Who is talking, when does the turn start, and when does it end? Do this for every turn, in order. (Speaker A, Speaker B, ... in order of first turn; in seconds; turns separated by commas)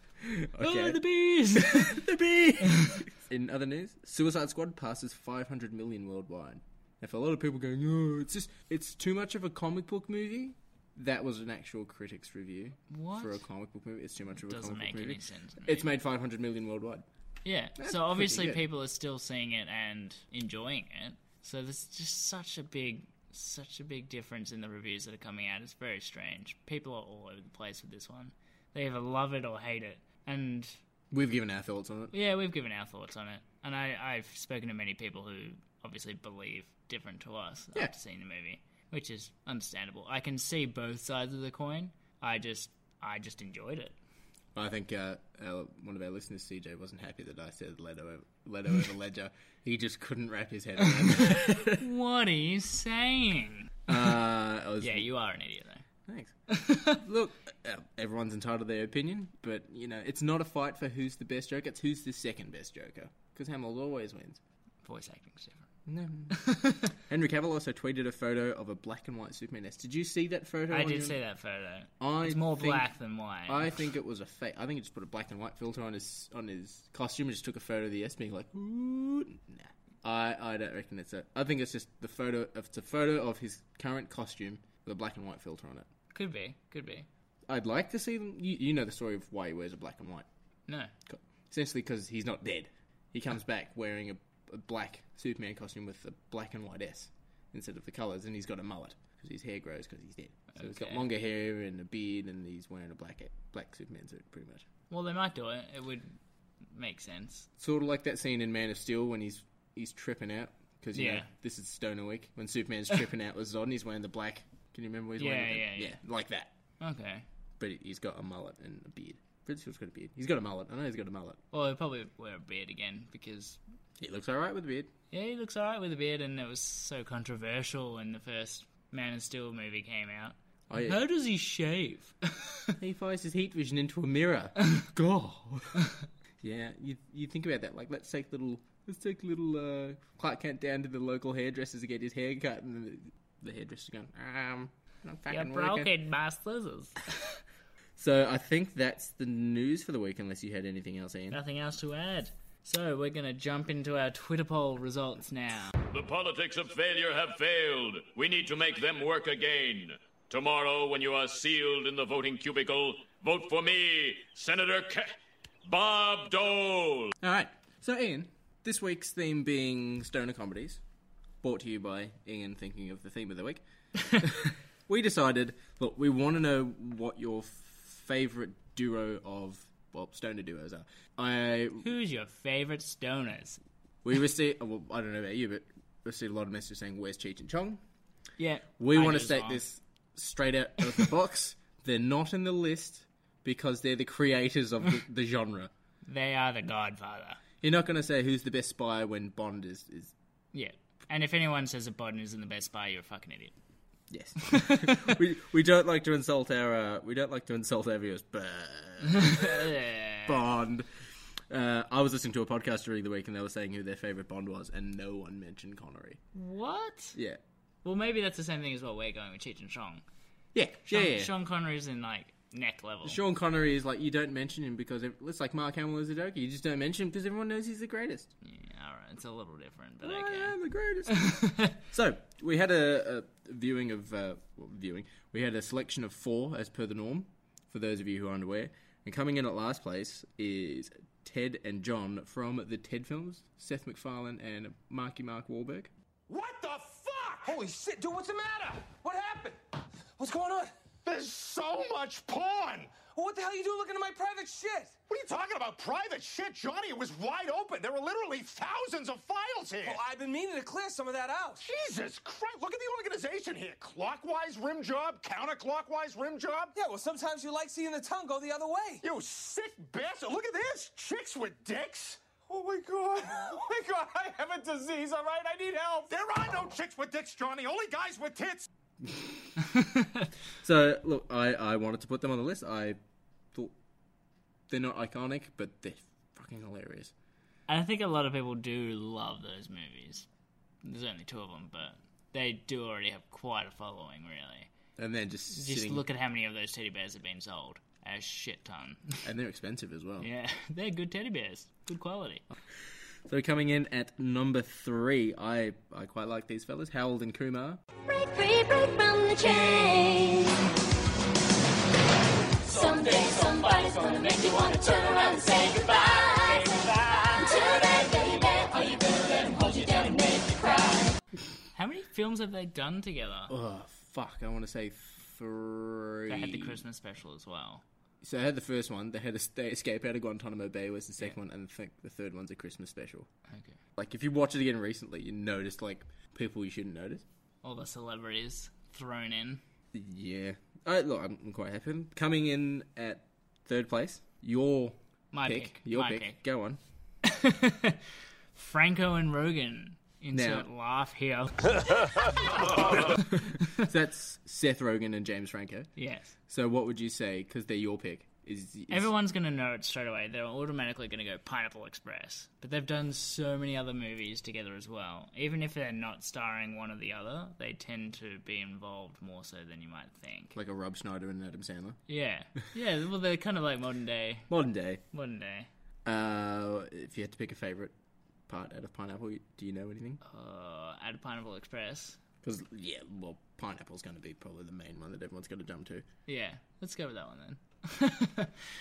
Speaker A: 0.2-17.1, Speaker B: 0.6-2.0, Speaker B: 12.9-13.4, Speaker B: 14.4-15.9, Speaker B: 17.4-30.8, Speaker A: 17.8-18.6, Speaker A: 31.1-32.1, Speaker B: 32.1-44.0, Speaker A: 44.5-51.8, Speaker B: 51.1-53.9, Speaker A: 53.9-55.1, Speaker B: 54.8-55.8, Speaker A: 56.0-64.4, Speaker B: 56.5-57.0, Speaker B: 64.8-65.7, Speaker A: 65.8-71.2, Speaker B: 66.3-66.9, Speaker B: 70.7-73.8, Speaker A: 72.0-72.9, Speaker A: 73.5-85.9, Speaker B: 86.1-87.1, Speaker A: 87.5-90.2, Speaker B: 90.7-90.9, Speaker A: 91.1-104.7, Speaker B: 100.5-101.0, Speaker B: 104.9-106.1, Speaker B: 106.7-107.5, Speaker A: 107.6-116.5, Speaker B: 110.9-111.3, Speaker B: 115.2-116.0, Speaker B: 116.8-117.2, Speaker A: 117.6-121.4, Speaker B: 121.5-123.6, Speaker A: 124.0-124.9, Speaker B: 125.1-132.7, Speaker A: 130.7-131.0, Speaker A: 132.8-135.8, Speaker A: 136.4-145.9, Speaker B: 145.3-147.0, Speaker A: 148.0-151.4, Speaker B: 151.3-155.7, Speaker C: 155.9-165.1, Speaker C: 165.7-167.1, Speaker A: 167.2-170.8, Speaker A: 171.4-181.9, Speaker B: 181.8-183.6, Speaker A: 184.0-187.8, Speaker B: 188.4-189.6, Speaker A: 188.8-195.7, Speaker B: 196.1-197.4, Speaker A: 197.6-200.1, Speaker B: 200.5-203.5, Speaker A: 204.1-209.7, Speaker B: 204.5-205.1, Speaker B: 209.1-210.4, Speaker A: 210.2-210.8, Speaker A: 211.5-216.2, Speaker B: 216.3-217.2, Speaker A: 217.1-217.4, Speaker B: 217.8-220.0, Speaker A: 220.5-221.3, Speaker B: 220.9-223.2, Speaker A: 223.0-228.3, Speaker B: 228.4-230.6, Speaker A: 230.0-245.9, Speaker B: 231.2-231.8, Speaker D: 246.3-247.6, Speaker E: 247.4-249.6, Speaker E: 250.2-250.7, Speaker D: 251.0-253.0, Speaker E: 253.0-254.9, Speaker D: 255.1-260.0, Speaker E: 259.8-261.6, Speaker D: 261.6-266.8, Speaker E: 266.8-269.0, Speaker D: 269.0-272.2, Speaker E: 272.5-276.0, Speaker D: 273.3-273.7, Speaker D: 276.0-278.7, Speaker A: 279.0-279.4, Speaker B: 279.6-280.3, Speaker A: 280.6-283.0, Speaker A: 284.7-287.1, Speaker B: 287.7-290.2, Speaker B: 290.8-294.7, Speaker A: 295.0-296.0, Speaker B: 295.5-299.2, Speaker A: 299.2-300.3, Speaker B: 300.2-302.4, Speaker A: 303.3-307.8, Speaker F: 308.1-310.6, Speaker F: 312.6-321.1, Speaker B: 321.7-323.5, Speaker A: 323.5-326.8, Speaker B: 326.3-327.8, Speaker A: 328.2-333.3, Speaker B: 333.5-333.8, Speaker A: 334.0-337.2, Speaker B: 337.6-339.6, Speaker A: 339.9-346.8, Speaker B: 345.3-346.4, Speaker B: 347.2-348.0, Speaker B: 348.5-352.1, Speaker A: 350.3-350.7, Speaker A: 352.8-355.9, Speaker B: 352.8-353.7, Speaker B: 356.0-356.3, Speaker A: 356.5-359.1, Speaker B: 358.9-370.5, Speaker A: 370.5-372.0, Speaker B: 372.1-374.5, Speaker A: 374.5-375.0, Speaker B: 375.1-375.7, Speaker A: 376.0-377.9, Speaker A: 378.5-380.2, Speaker B: 380.2-382.2, Speaker A: 382.4-386.0, Speaker B: 386.3-388.5